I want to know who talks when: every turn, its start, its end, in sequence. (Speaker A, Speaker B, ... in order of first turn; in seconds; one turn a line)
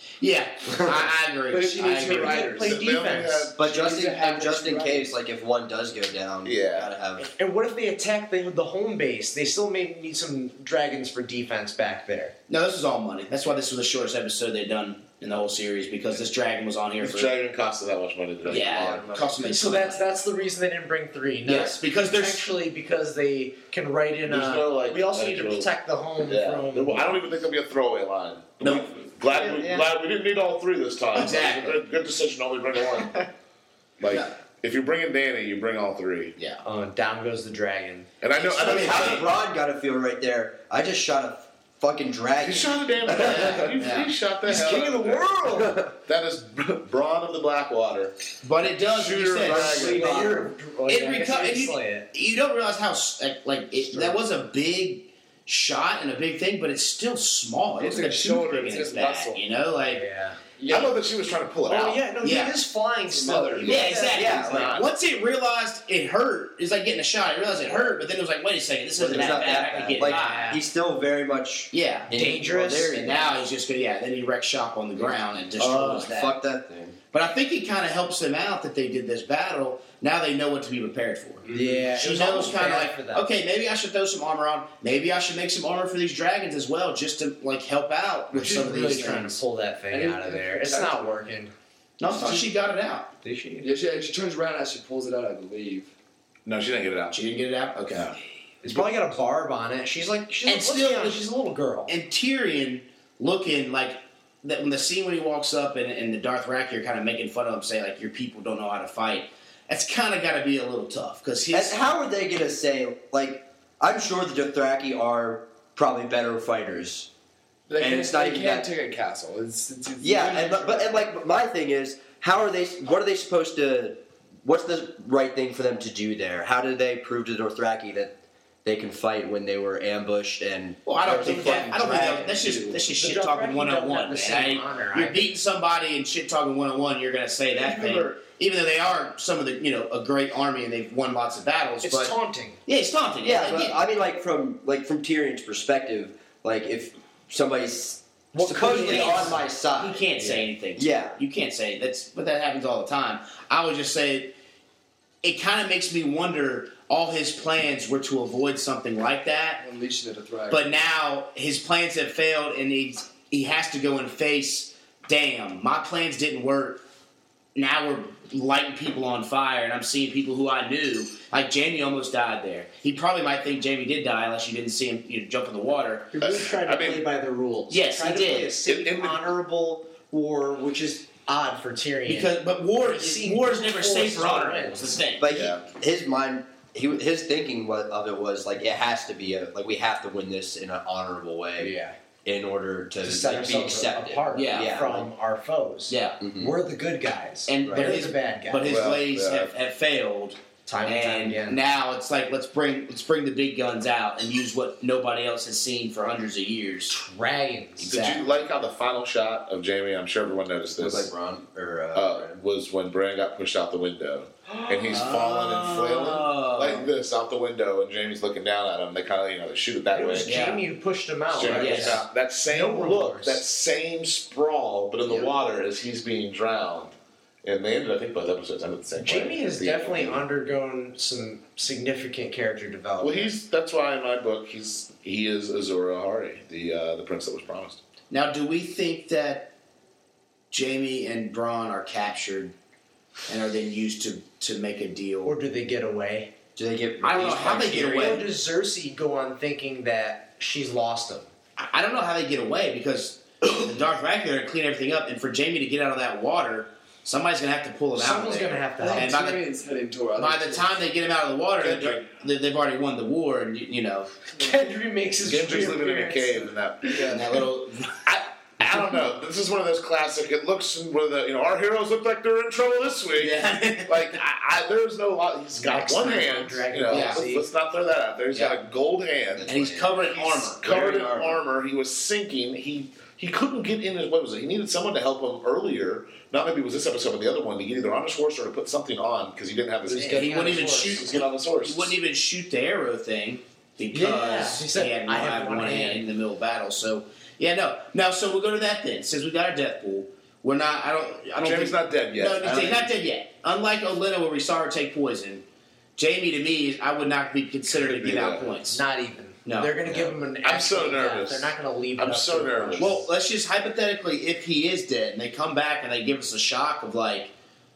Speaker A: 0.2-2.5
Speaker B: 1.5-2.9
Speaker C: 2.1-3.6
Speaker D: 2.6-3.6
Speaker E: 3.6-7.3
Speaker B: 3.6-5.0
Speaker D: 6.4-6.9
Speaker C: 7.2-12.3
Speaker A: 12.5-17.3
Speaker D: 17.0-19.5
Speaker A: 18.4-20.0
Speaker C: 19.4-27.2
Speaker A: 21.4-22.5
Speaker D: 24.2-25.7
Speaker D: 26.2-33.2
Speaker A: 28.6-29.7
Speaker A: 31.1-31.8
Speaker D: 34.0-36.4
Speaker A: 36.4-36.6
Speaker C: 36.6-38.1
Speaker D: 38.2-39.4
Speaker E: 38.5-43.8
Speaker D: 42.4-48.1
Speaker A: 43.1-44.1
Speaker C: 44.5-45.8
Speaker E: 45.5-45.9
Speaker A: 48.4-50.3
Speaker D: 48.7-50.1
Speaker E: 49.4-50.5
Speaker C: 49.5-52.1
Speaker A: 50.9-60.0
Speaker B: 57.8-59.4
Speaker C: 59.9-60.4
Speaker B: 60.5-60.9
Speaker D: 60.7-62.0
Speaker C: 61.7-64.7
Speaker A: 62.2-62.5
Speaker B: 63.1-63.8
Speaker D: 63.6-64.8
Speaker A: 63.6-70.6
Speaker E: 64.1-64.8
Speaker E: 69.0-73.4
Speaker C: 69.2-70.6
Speaker A: 71.7-76.3
Speaker C: 72.1-73.0
Speaker E: 75.6-77.0
Speaker A: 77.1-89.4
Speaker B: 81.5-81.8
Speaker C: 81.5-83.3
Speaker C: 88.3-91.5
Speaker B: 89.9-91.1
Speaker A: 92.0-93.1
Speaker B: 92.1-92.4
Speaker C: 93.2-93.7
Speaker B: 93.6-95.9
Speaker D: 96.5-97.2
Speaker A: 97.1-98.1
Speaker C: 98.6-101.9
Speaker A: 100.5-101.2
Speaker A: 101.9-111.8
Speaker E: 111.5-117.1
Speaker B: 117.7-121.0
Speaker E: 117.8-118.7
Speaker E: 120.0-128.1
Speaker E: 128.6-132.8
Speaker A: 130.8-143.8
Speaker B: 131.1-132.8
Speaker C: 131.3-132.1
Speaker C: 132.8-135.3
Speaker C: 141.8-142.6
Speaker E: 143.2-151.2
Speaker C: 148.3-149.4
Speaker A: 148.6-154.3
Speaker A: 155.2-159.6
Speaker B: 159.6-160.7
Speaker A: 160.5-166.8
Speaker A: 167.5-176.2
Speaker C: 176.1-184.8
Speaker D: 176.2-177.0
Speaker A: 177.7-178.6
Speaker D: 178.6-179.2
Speaker A: 182.1-185.2
Speaker E: 185.2-195.1
Speaker D: 185.3-185.6
Speaker C: 191.6-191.9
Speaker C: 193.0-198.8
Speaker A: 194.3-195.0
Speaker A: 195.9-196.2
Speaker E: 196.2-196.5
Speaker A: 197.5-206.9
Speaker D: 198.6-199.5
Speaker C: 200.7-201.6
Speaker C: 206.9-208.0
Speaker A: 207.8-208.2
Speaker D: 207.8-211.1
Speaker E: 210.8-212.4
Speaker D: 211.9-220.4
Speaker A: 214.5-216.9
Speaker C: 219.9-223.4
Speaker A: 220.2-220.6
Speaker D: 221.3-230.2
Speaker A: 221.4-222.0
Speaker C: 229.0-233.3
Speaker D: 233.0-237.8
Speaker A: 238.1-239.5
Speaker A: 240.5-242.5
Speaker A: 243.3-245.4
Speaker C: 245.2-246.3
Speaker E: 246.6-248.2
Speaker A: 247.0-248.2
Speaker C: 247.7-251.3
Speaker A: 251.6-259.4
Speaker C: 257.9-259.1
Speaker B: 258.8-260.8
Speaker A: 260.2-264.1
Speaker D: 261.6-262.0
Speaker C: 264.3-267.1
Speaker D: 265.2-267.1
Speaker B: 266.9-267.2
Speaker A: 267.1-268.0
Speaker D: 268.0-279.6
Speaker A: 273.2-274.2
Speaker C: 275.5-277.4
Speaker A: 276.9-277.3
Speaker A: 278.3-278.6
Speaker E: 279.4-280.1
Speaker A: 279.5-281.4
Speaker D: 280.1-292.0
Speaker C: 289.9-291.0
Speaker A: 290.0-305.4
Speaker C: 293.9-296.1
Speaker D: 301.4-302.9
Speaker A: 305.9-308.8
Speaker D: 307.7-308.5
Speaker C: 308.6-313.0
Speaker A: 309.4-309.8
Speaker D: 309.8-313.1
Speaker A: 312.8-317.3